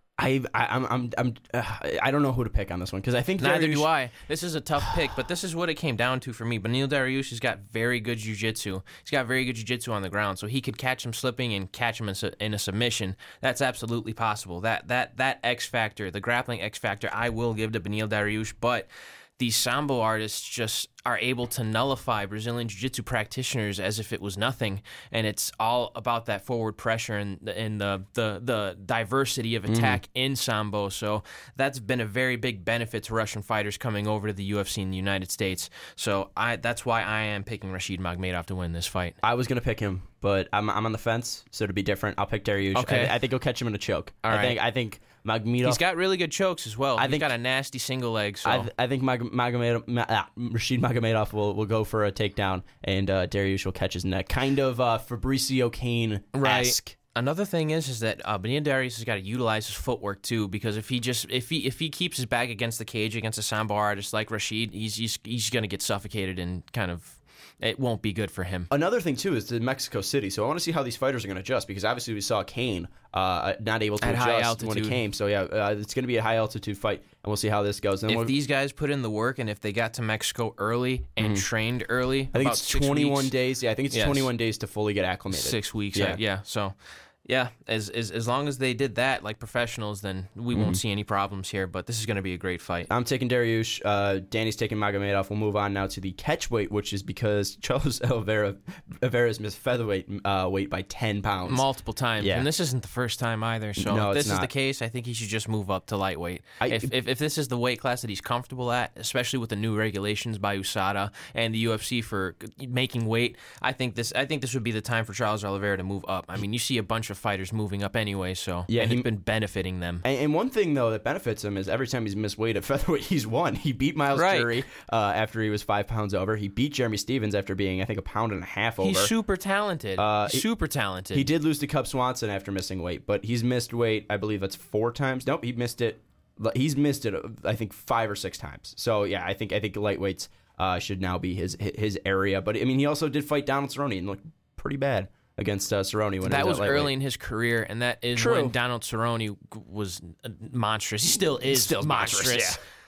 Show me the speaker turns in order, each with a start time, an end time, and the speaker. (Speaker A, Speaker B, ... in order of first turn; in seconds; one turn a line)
Speaker A: 0.2-3.9
Speaker B: 3.4-39.2
Speaker A: 29.7-30.0
Speaker A: 39.2-45.8
Speaker B: 42.7-43.1
Speaker B: 44.2-44.6
Speaker B: 45.6-48.7
Speaker A: 47.0-47.3
Speaker A: 48.4-57.0
Speaker B: 56.3-68.7
Speaker A: 68.7-78.3
Speaker B: 74.0-75.0
Speaker B: 78.1-83.3
Speaker A: 81.2-81.5
Speaker A: 82.3-86.2
Speaker B: 83.9-84.3
Speaker B: 85.3-92.9
Speaker A: 90.5-90.8
Speaker A: 92.9-101.7
Speaker B: 101.5-120.0
Speaker A: 102.2-102.5
Speaker A: 103.8-104.5
Speaker A: 106.6-106.9
Speaker A: 118.7-119.1
Speaker A: 120.0-129.1
Speaker B: 124.1-124.6
Speaker B: 128.8-131.3
Speaker A: 130.0-130.4
Speaker A: 131.1-146.9
Speaker B: 146.2-152.6
Speaker A: 148.2-148.5
Speaker A: 151.5-152.6